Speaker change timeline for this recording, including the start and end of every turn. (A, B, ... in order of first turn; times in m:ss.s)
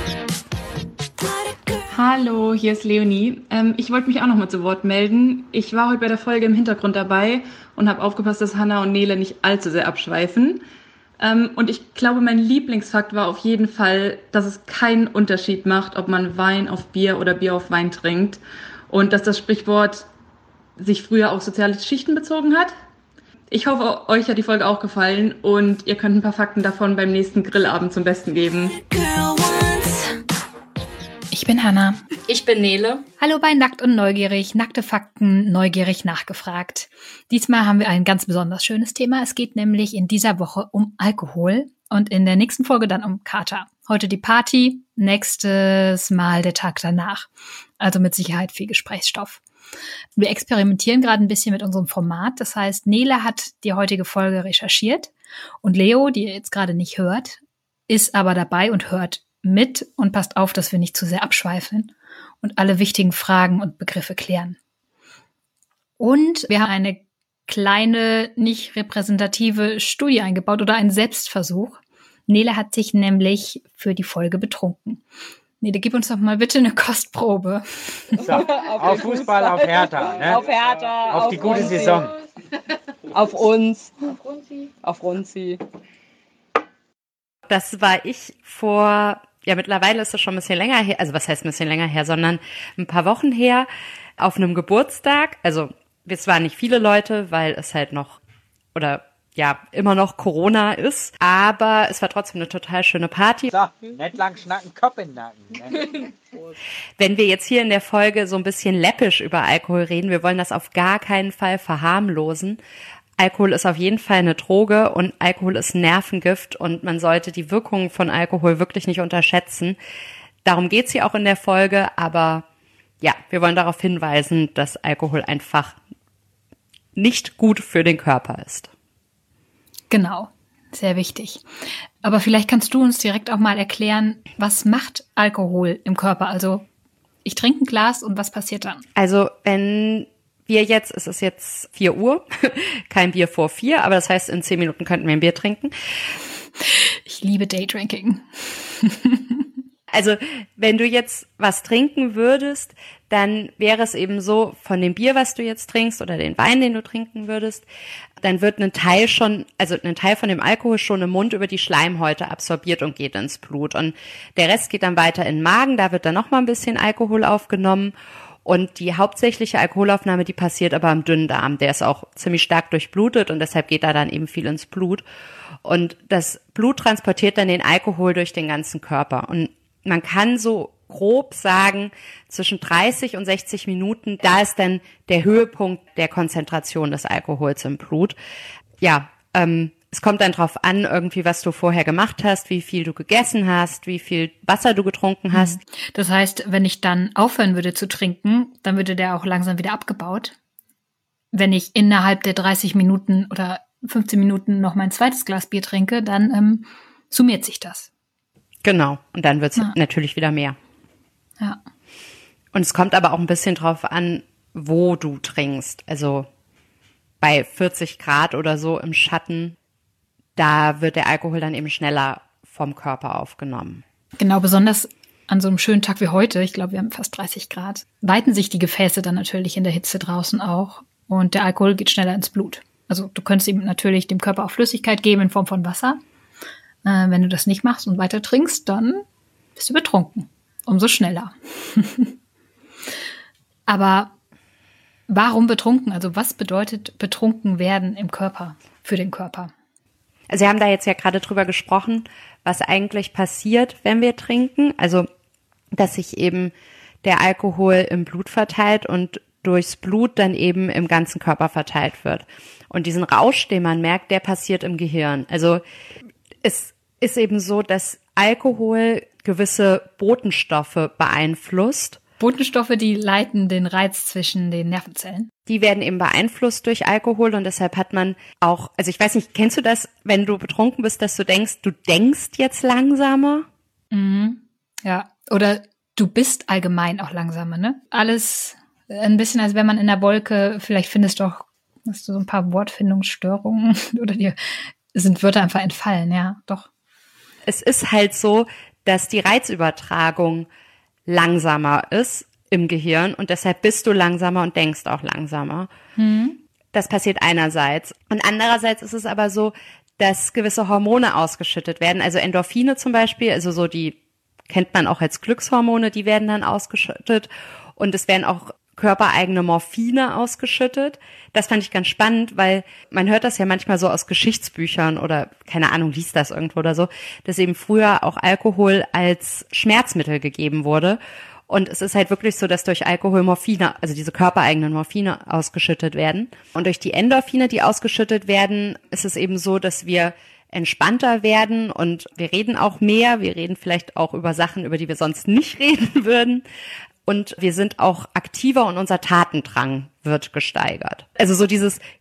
0:01.2-0:01.9 A
0:01.9-0:10.6 B
0:11.2-0:20.1 B
0:20.8-0:22.7 B
0:23.5-0:28.8 B
0:28.5-0:30.2 A
0:31.3-0:32.0 C
0:32.3-0:33.0 D
0:33.2-0:49.4 C
0:50.2-0:55.1 C
0:55.6-1:04.6 C
1:06.0-1:15.0 C
1:15.6-1:18.2 C
1:18.2-1:22.2 A
1:18.2-1:20.5 E
1:21.0-1:22.1 E
1:23.1-1:25.6 A
1:27.5-1:33.7 D
1:34.2-1:38.2 D
1:38.7-1:43.5 D
1:43.5-1:46.0 E
1:47.0-1:52.6 D
1:53.2-1:59.8 D
2:00.4-2:02.4 D
2:03.0-2:05.8 D
2:07.0-2:08.7 D
2:09.9-2:11.4 C
2:12.0-2:16.7 C
2:17.2-2:18.8 C
2:19.0-2:25.7 D
2:26.6-2:29.5 C
2:29.9-2:37.6 D
2:38.2-2:47.9 D
2:48.4-2:55.0 D
2:55.6-3:08.2 D
3:08.8-3:15.6 D
3:15.3-3:20.4 C
3:21.3-3:27.9 C
3:28.6-3:30.6 D
3:32.5-3:36.3 D
3:37.2-3:39.5 D
3:40.4-3:43.8 D
3:44.2-3:56.0 C
3:56.8-3:59.0 C
3:59.6-4:02.1 C
4:03.7-4:04.1 C
4:05.1-4:09.5 C
4:10.3-4:15.0 D
4:15.7-4:25.6 D
4:26.4-4:32.0 D
4:32.2-4:35.3 C
4:35.4-4:43.5 D
4:43.9-4:56.7 C
4:57.4-5:00.5 D
5:01.1-5:05.7 D
5:06.0-5:06.4 C
5:06.7-5:14.0 D
5:14.5-5:46.4 D
5:47.0-5:51.8 D